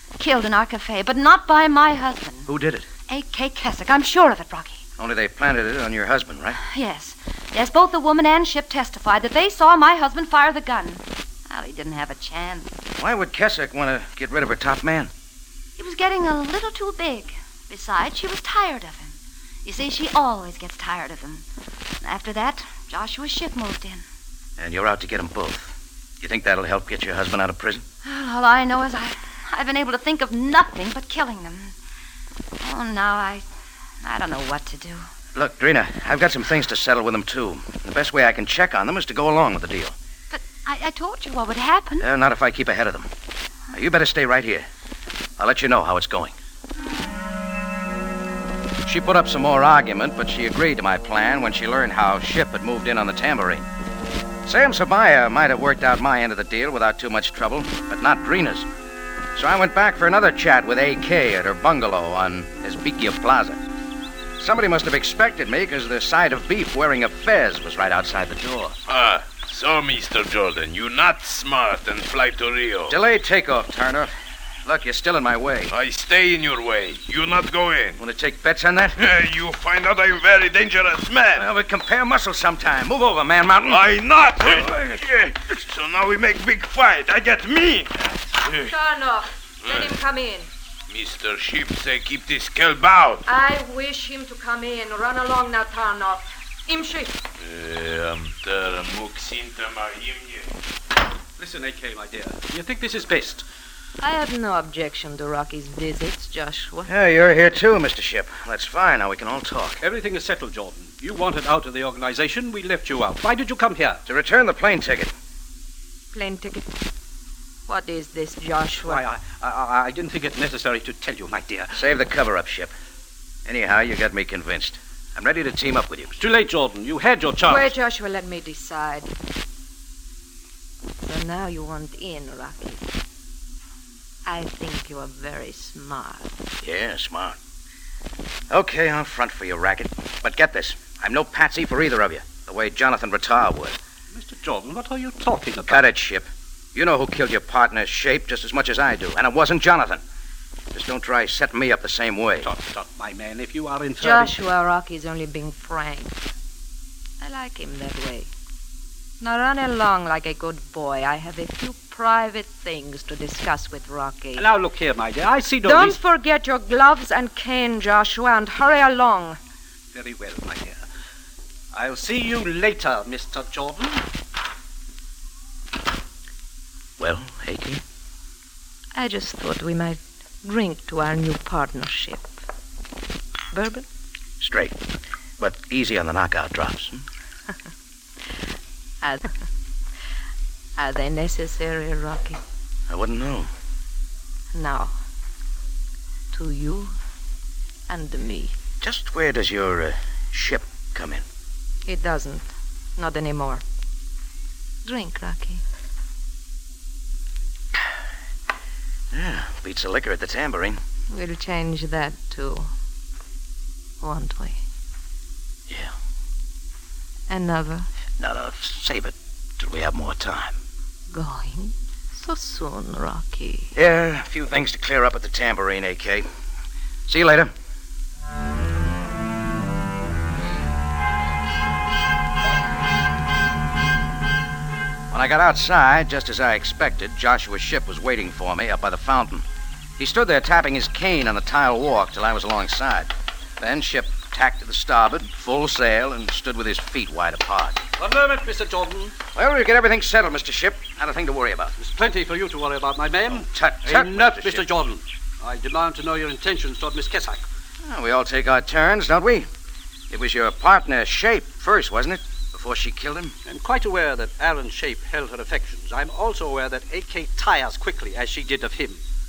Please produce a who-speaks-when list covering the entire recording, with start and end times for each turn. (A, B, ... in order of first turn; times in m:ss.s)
0:00.2-0:02.5 A
0:02.5-0:02.9 B
0:03.1-0:04.8 A
0:05.0-0:06.6 B
0:06.6-0:12.7 A
0:13.0-0:15.1 B
0:15.8-0:21.4 A
0:22.0-0:24.0 A
0:24.6-0:27.8 B
0:28.0-0:31.7 A
0:32.6-0:33.4 A
0:34.0-0:35.1 A
0:35.4-0:40.0 B
0:40.3-0:42.1 A
0:42.0-0:43.1 B
0:43.7-0:44.7 B
0:45.4-0:46.4 B
0:48.8-0:53.7 B
0:54.4-0:58.7 B
0:59.4-1:03.6 B
1:04.4-1:08.8 B
1:08.9-1:13.0 C
1:12.9-1:14.1 B
1:14.6-1:15.7 B
1:15.7-1:18.0 C
1:18.0-1:19.0 B
1:19.0-1:21.5 C
1:21.4-1:23.9 B
1:23.7-1:28.8 C
1:28.6-1:30.5 D
1:29.6-1:30.0 C
1:30.9-1:33.2 C
1:33.3-1:37.2 D
1:37.4-1:40.5 C
1:41.4-1:43.4 E
1:44.0-1:46.9 D
1:46.9-1:49.8 B
1:49.8-1:54.0 E
1:54.1-1:55.1 B
1:56.1-1:56.7 D
1:57.7-1:59.0 D
1:58.8-2:01.8 E
2:01.7-2:02.7 B
2:03.4-2:06.2 B
2:06.2-2:07.7 E
2:07.5-2:09.1 D
2:11.0-2:12.8 D
2:14.3-2:16.3 D
2:16.6-2:17.4 B
2:18.5-2:23.8 B
2:24.1-2:25.8 E
2:25.7-2:30.0 B
2:30.7-2:32.5 B
2:32.4-2:34.3 E
2:34.0-2:36.2 D
2:37.2-2:38.3 D
2:39.2-2:44.5 D
2:44.4-2:46.0 E
2:45.6-2:49.4 D
2:49.9-2:50.8 E
2:51.7-2:54.0 E
2:57.0-2:57.8 B
2:59.0-3:02.3 D
3:03.5-3:03.8 D
3:04.4-3:04.8 B
3:05.4-3:07.0 B
3:09.0-3:09.3 D
3:10.8-3:12.4 D
3:12.9-3:13.5 B
3:14.5-3:14.9 D
3:16.3-3:16.9 D
3:17.9-3:18.6 D
3:18.8-3:21.2 B
3:21.9-3:23.6 D
3:24.8-3:25.6 D
3:29.1-3:30.8 B
3:31.1-3:32.7 D
3:34.0-3:34.6 D
3:35.7-3:35.9 B
3:37.3-3:37.9 D
3:38.2-3:40.6 B
3:41.1-3:43.7 D
3:43.8-3:46.3 B
3:47.1-3:47.5 B
3:55.1-3:59.4 B
4:00.0-4:07.8 B
4:08.0-4:09.2 E
4:09.4-4:11.8 B
4:11.8-4:17.4 E
4:13.5-4:14.6 B
4:17.8-4:19.5 B
4:20.1-4:23.4 B
4:23.5-4:29.0 E